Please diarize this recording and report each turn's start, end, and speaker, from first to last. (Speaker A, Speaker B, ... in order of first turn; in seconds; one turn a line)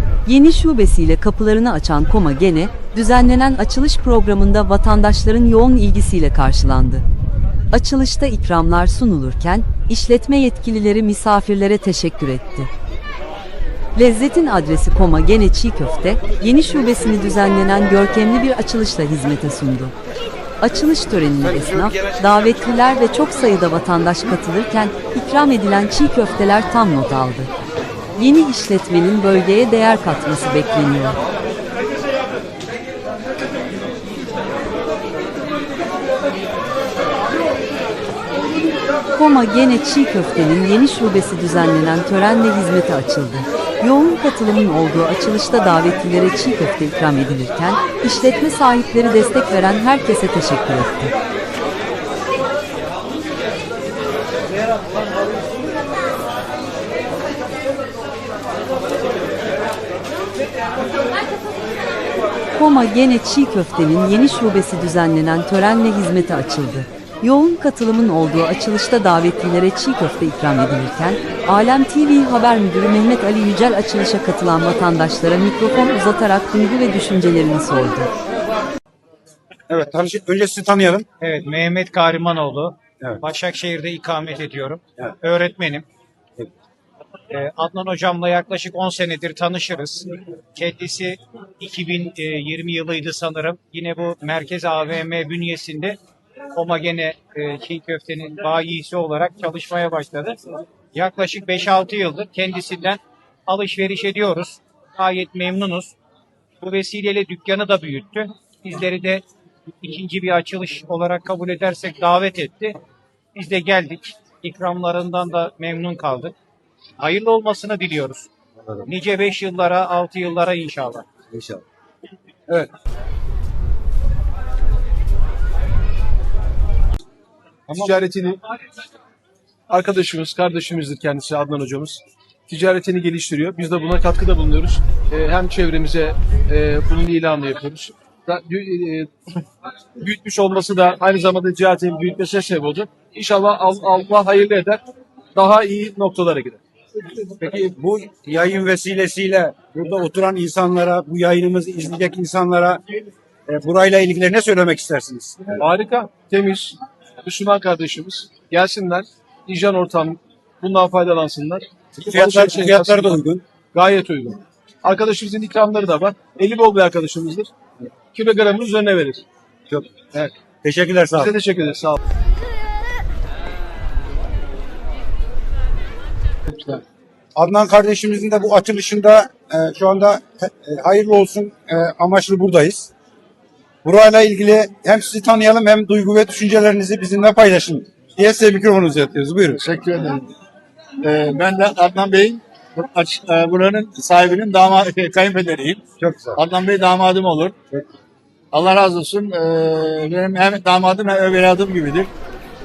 Speaker A: 0.3-7.1
Speaker A: 7.7-12.7
Speaker A: 14.0-19.9
Speaker A: 20.6-27.5
Speaker B: 21.6-21.9
Speaker A: 28.2-31.2
Speaker A: 39.1-51.1
Speaker A: 62.5-78.1
Speaker B: 79.7-81.1
Speaker C: 81.2-85.9
Speaker C: 87.3-96.0
Speaker C: 96.5-100.4
Speaker C: 100.9-106.0
Speaker C: 106.6-109.2
Speaker C: 109.8-112.8
Speaker C: 113.3-116.3
Speaker C: 117.0-118.3
Speaker C: 118.9-121.0
Speaker B: 121.3-121.6
Speaker B: 127.7-128.0
Speaker D: 127.7-128.4
Speaker D: 129.7-139.1
Speaker D: 140.0-144.8
Speaker D: 145.3-146.6
Speaker B: 147.3-152.8
Speaker B: 153.5-155.5
Speaker D: 155.6-163.2
Speaker B: 162.0-163.4
Speaker D: 163.7-167.5
Speaker D: 168.1-169.2
Speaker B: 169.7-171.3
Speaker D: 171.2-172.0
Speaker B: 177.4-182.9
Speaker B: 183.8-189.6
Speaker E: 189.6-190.2
Speaker E: 191.0-195.8
Speaker B: 196.0-196.4
Speaker E: 196.4-197.6
Speaker E: 198.5-202.1